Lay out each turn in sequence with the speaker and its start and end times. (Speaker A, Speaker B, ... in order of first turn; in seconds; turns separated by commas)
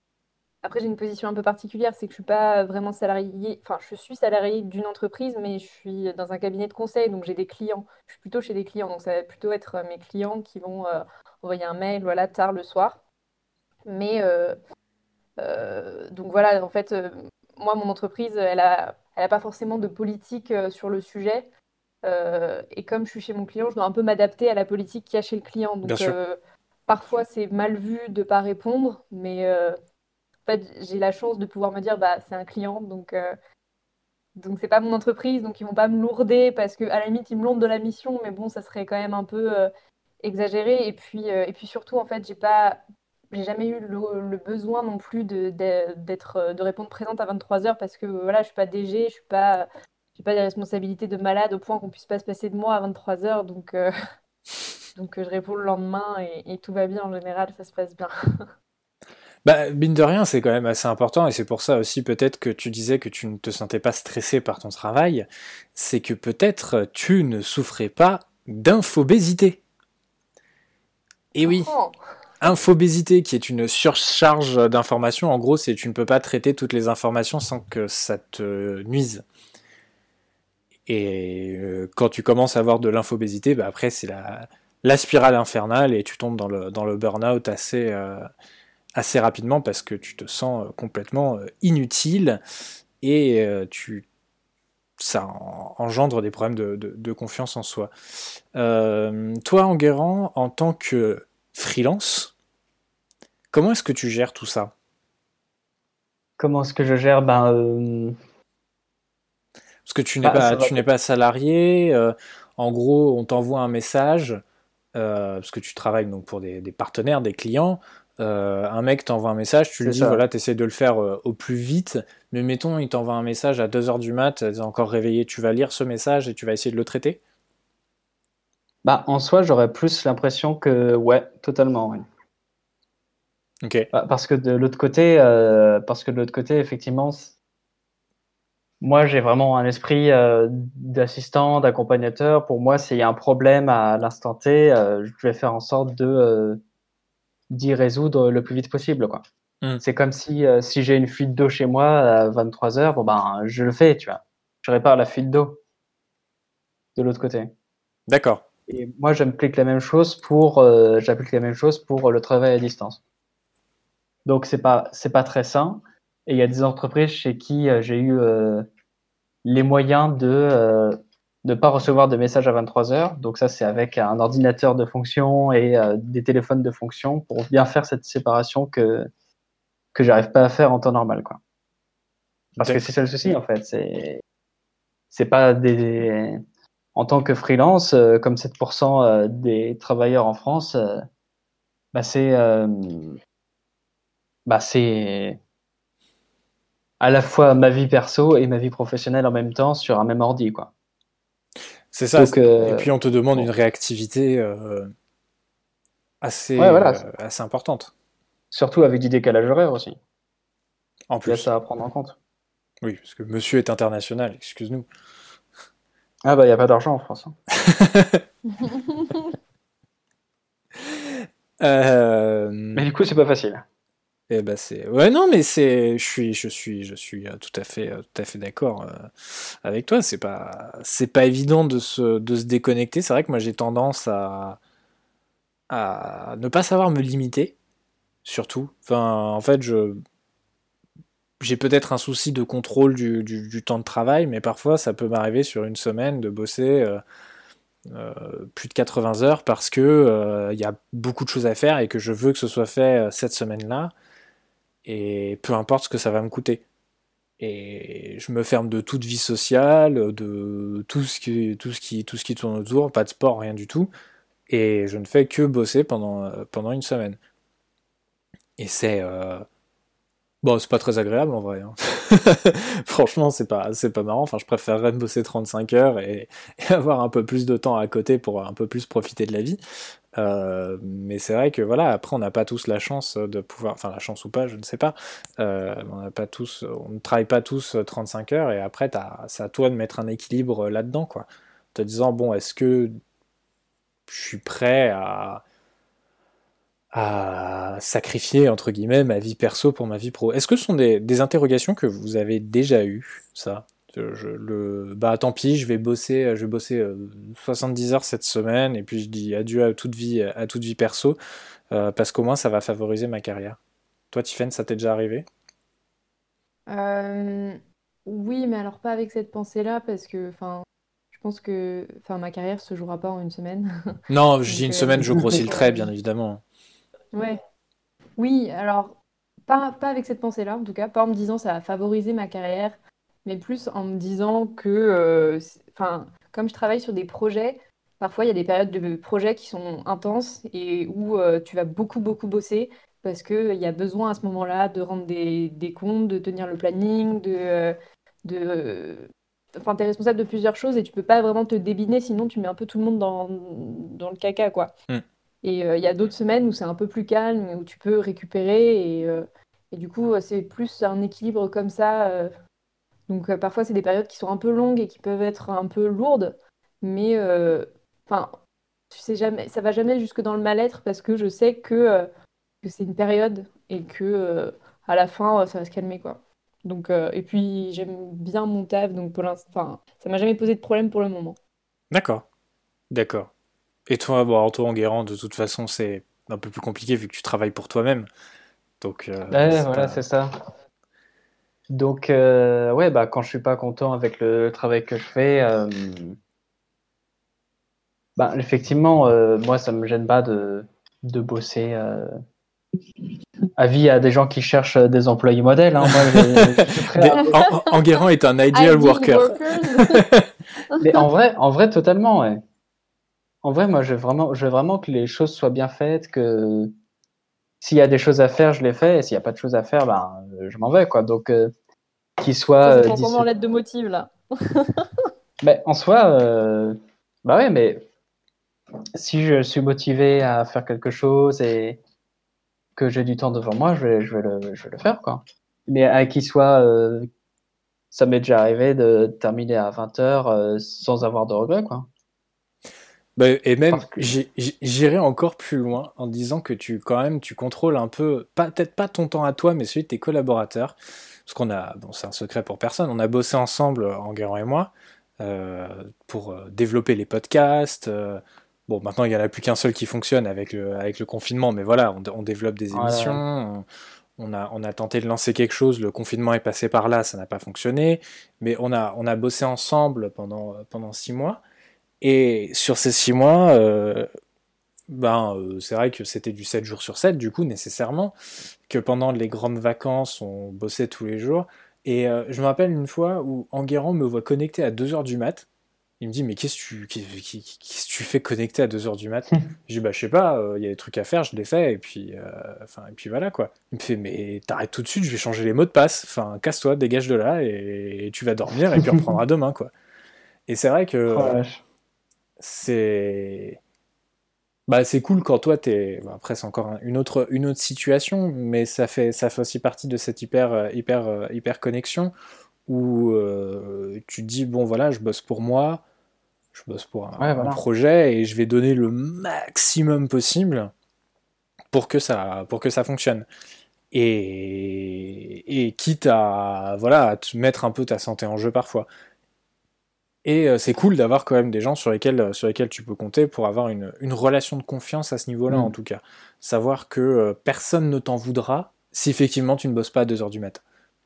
Speaker A: 0.6-13.0, Speaker A: 13.9-14.6, Speaker A: 15.4-21.5, Speaker A: 22.0-29.8, Speaker B: 25.8-26.2, Speaker A: 30.5-33.4, Speaker A: 34.4-39.7, Speaker A: 40.2-53.9, Speaker A: 55.0-58.1, Speaker B: 59.5-69.6, Speaker B: 71.3-71.7, Speaker A: 71.5-72.0, Speaker B: 72.4-79.2, Speaker B: 80.9-88.3, Speaker B: 89.0-92.4, Speaker B: 93.0-94.0, Speaker B: 95.0-97.9, Speaker B: 98.5-102.3, Speaker B: 103.5-104.7, Speaker C: 106.4-108.2, Speaker B: 109.9-114.4, Speaker C: 110.2-110.8, Speaker B: 115.0-127.2, Speaker C: 119.8-120.2, Speaker C: 128.8-132.1, Speaker B: 133.6-133.9, Speaker C: 133.9-137.3, Speaker C: 138.8-146.6, Speaker C: 147.5-149.2, Speaker C: 149.8-155.6, Speaker C: 156.9-157.5, Speaker B: 158.1-158.4, Speaker C: 158.7-163.0, Speaker C: 164.2-168.7, Speaker C: 169.4-179.1, Speaker C: 179.9-181.4, Speaker C: 182.6-184.2, Speaker C: 185.1-186.4, Speaker C: 186.9-191.1, Speaker C: 191.9-193.2, Speaker C: 194.5-195.4, Speaker C: 197.0-200.7, Speaker B: 201.9-204.9, Speaker C: 202.2-203.5, Speaker B: 206.2-207.9, Speaker C: 206.6-207.0, Speaker C: 208.5-210.0, Speaker B: 211.1-211.5, Speaker C: 211.3-212.2, Speaker B: 212.8-214.9, Speaker C: 216.2-217.4, Speaker B: 217.6-218.2, Speaker A: 218.6-219.2, Speaker B: 220.8-222.8, Speaker C: 222.8-223.6, Speaker B: 224.3-229.1, Speaker B: 229.6-234.6, Speaker B: 235.7-237.6, Speaker B: 238.2-240.0, Speaker B: 241.4-247.0, Speaker B: 247.9-253.9, Speaker B: 254.8-256.6, Speaker B: 257.4-263.9, Speaker B: 264.5-267.2, Speaker B: 268.6-269.4, Speaker B: 270.4-279.6, Speaker B: 280.2-293.0, Speaker B: 294.1-295.4, Speaker B: 296.9-311.2, Speaker B: 311.7-313.6, Speaker B: 314.1-315.2, Speaker A: 316.7-323.8, Speaker B: 324.1-326.4, Speaker A: 324.5-325.9, Speaker C: 325.1-325.4, Speaker A: 327.1-327.4, Speaker A: 328.2-354.7, Speaker A: 355.4-362.3, Speaker A: 363.1-368.4, Speaker A: 368.9-372.1, Speaker A: 372.6-381.4, Speaker B: 381.9-382.2, Speaker B: 382.9-383.3, Speaker B: 383.9-388.1, Speaker B: 388.8-390.0, Speaker C: 389.3-390.3, Speaker C: 391.7-396.2, Speaker C: 398.2-402.1, Speaker C: 403.6-407.4, Speaker B: 405.9-406.4, Speaker B: 406.9-410.3, Speaker A: 408.5-410.0, Speaker C: 410.8-412.4, Speaker C: 413.4-416.7, Speaker C: 417.6-421.5, Speaker C: 422.2-423.3, Speaker A: 422.6-425.1, Speaker C: 425.4-427.8, Speaker C: 428.9-431.8, Speaker C: 432.8-437.1, Speaker C: 437.9-441.9, Speaker B: 443.2-450.8, Speaker C: 443.7-444.2, Speaker B: 451.3-463.6, Speaker C: 462.7-463.2, Speaker B: 464.2-471.4, Speaker B: 472.0-474.1, Speaker B: 474.9-478.1, Speaker B: 478.7-485.5, Speaker B: 486.0-499.7, Speaker B: 500.5-501.3, Speaker C: 501.1-501.6, Speaker B: 502.4-503.6, Speaker B: 504.7-512.1, Speaker B: 512.7-515.8, Speaker B: 516.5-520.7, Speaker C: 517.2-517.6, Speaker B: 521.7-523.2, Speaker B: 523.9-528.9, Speaker B: 530.2-540.6